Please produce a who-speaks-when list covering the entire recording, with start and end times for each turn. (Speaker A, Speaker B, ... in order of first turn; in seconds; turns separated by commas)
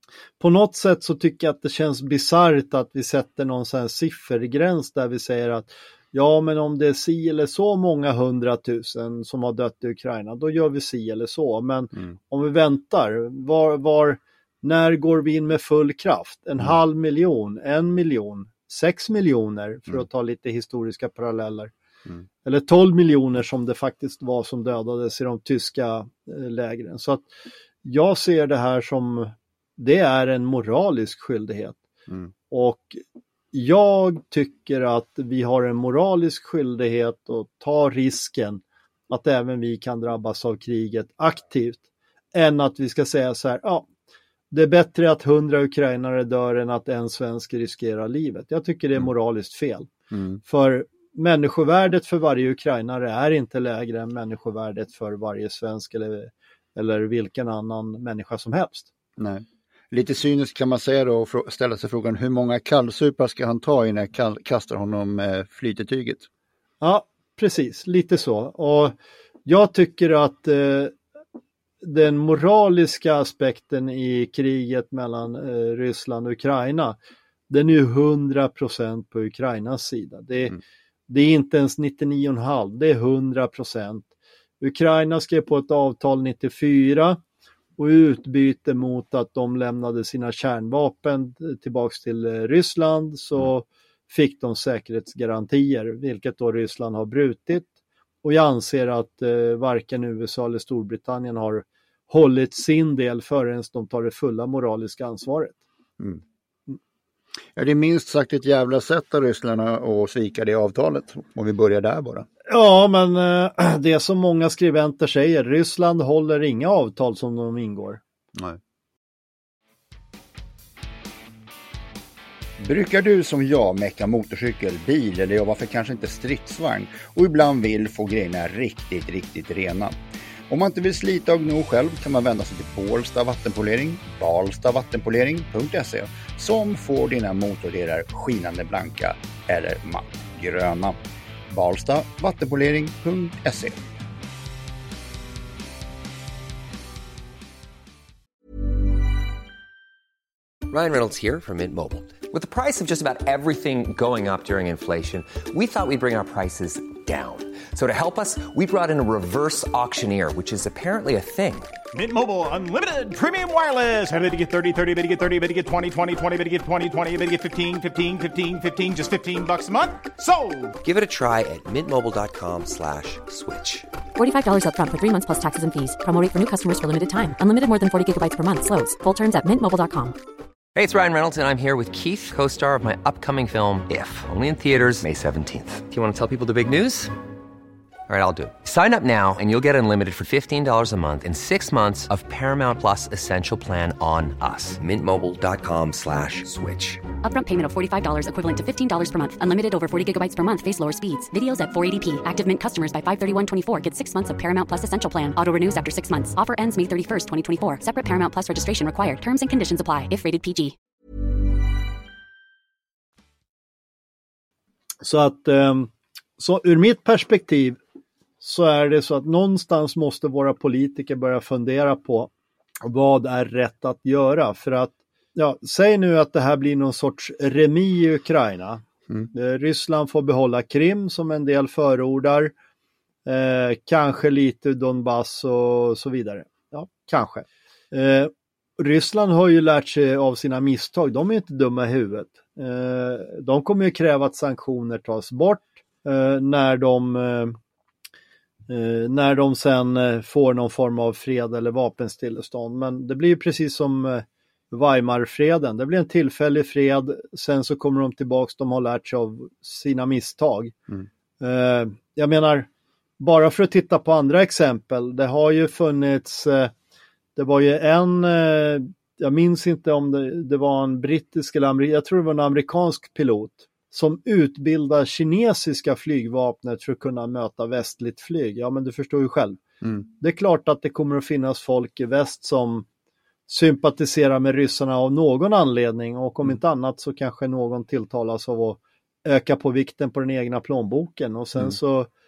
Speaker A: 0.4-21.7, Speaker A: 22.4-27.2, Speaker A: 27.8-31.8, Speaker A: 32.5-33.0, Speaker A: 33.5-41.8, Speaker A: 42.3-43.9, Speaker A: 44.5-49.9, Speaker B: 50.1-50.4, Speaker A: 50.4-58.9, Speaker B: 59.2-66.3, Speaker A: 66.8-71.0, Speaker A: 71.8-77.0, Speaker A: 77.5-80.6, Speaker A: 81.1-84.0, Speaker A: 84.6-87.2, Speaker A: 87.8-97.7, Speaker A: 98.2-105.6, Speaker B: 107.5-112.3, Speaker A: 112.5-118.0, Speaker B: 122.6-129.9, Speaker B: 130.5-143.8, Speaker C: 150.7-161.7, Speaker D: 161.9-170.8, Speaker C: 170.8-173.9, Speaker E: 174.2-180.2, Speaker C: 180.7-187.1, Speaker C: 188.1-197.0, Speaker E: 197.2-210.7, Speaker A: 215.0-217.8, Speaker A: 218.4-222.3, Speaker A: 222.8-232.5, Speaker A: 233.2-247.6, Speaker A: 248.7-260.7, Speaker A: 261.4-262.7, Speaker A: 263.2-266.7, Speaker A: 267.4-279.6, Speaker A: 280.2-282.9, Speaker A: 283.5-292.1